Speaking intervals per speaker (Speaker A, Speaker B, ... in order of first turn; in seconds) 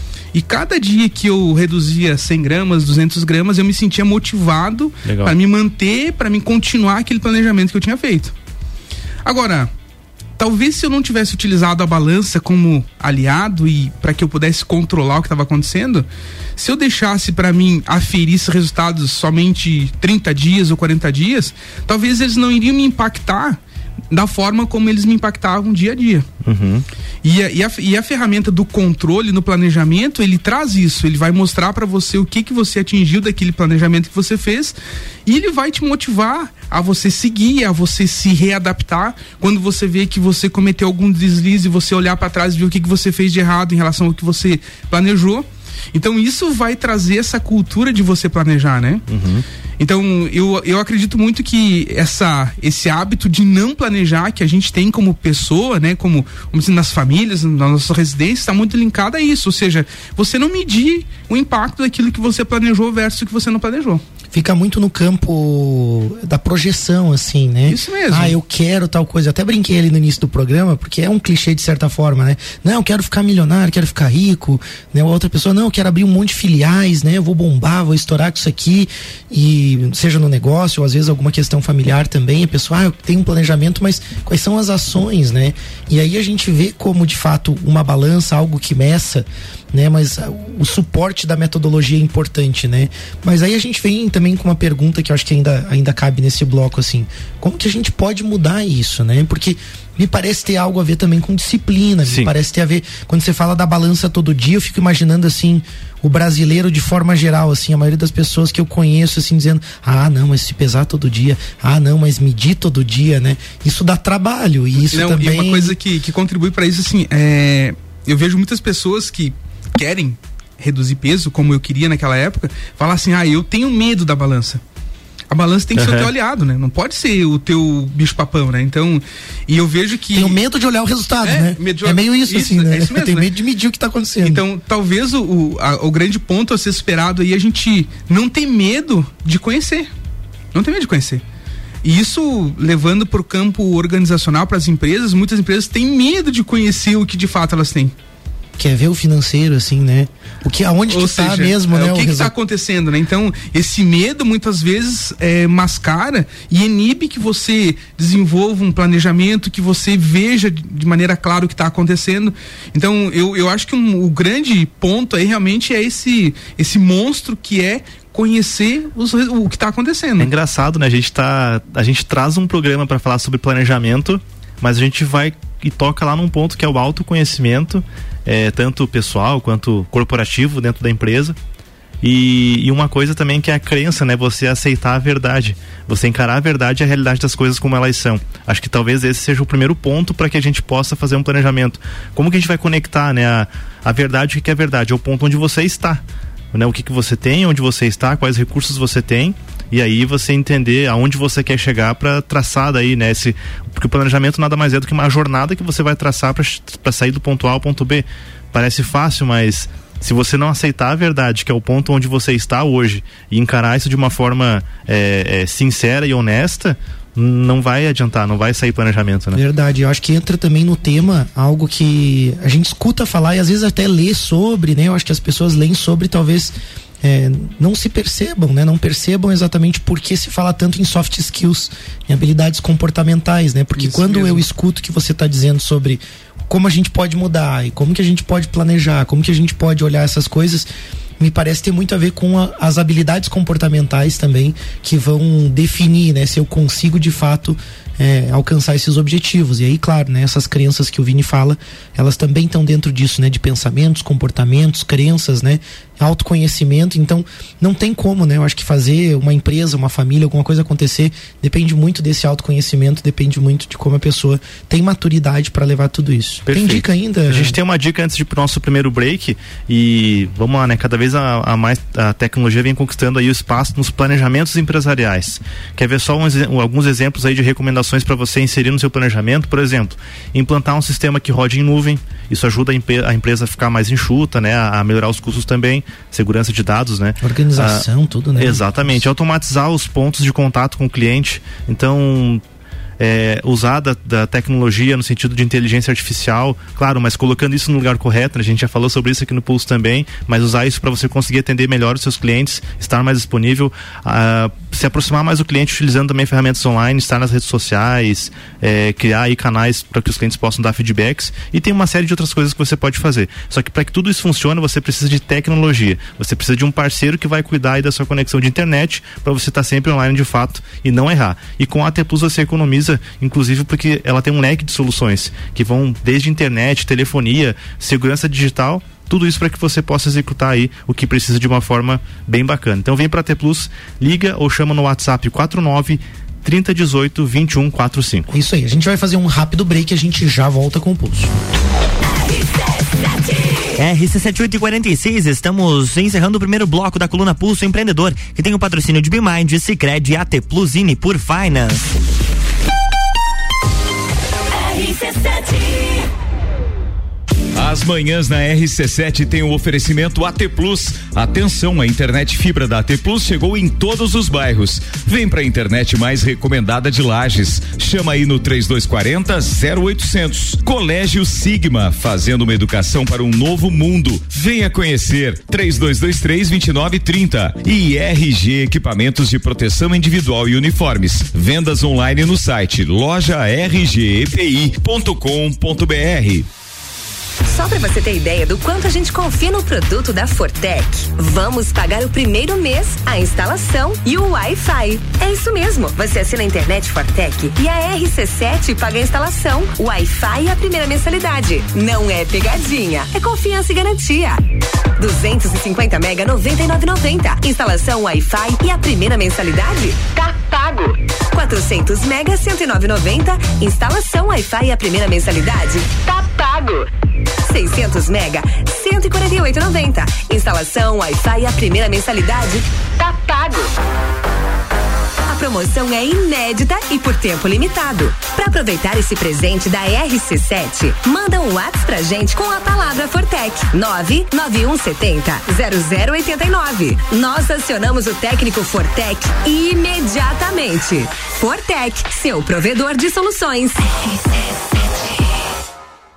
Speaker A: 0.3-8.3, 9.2-9.7, 10.4-23.6, 24.1-26.3, 27.2-49.0, 49.8-64.0, 67.7-68.4, 114.8-124.6, 125.3-130.4, 131.2-133.3, 134.2-139.9, 140.5-141.2, 141.8-147.9, 150.9-170.3, 233.8-234.4
Speaker B: 5.0-5.3, 26.4-26.9, 49.1-49.5, 125.8-126.1, 170.2-181.4, 182.0-219.4, 266.5-287.9, 288.4-292.4, 293.0-338.3
Speaker C: 64.3-115.8, 130.1-134.4, 148.6-152.3, 219.3-240.7, 241.2-267.6, 287.2-289.1, 338.3-341.3
Speaker D: 343.8-351.9
Speaker E: 357.6-386.5
Speaker F: 387.5-404.4, 405.0-416.9, 417.4-423.7, 425.3-445.1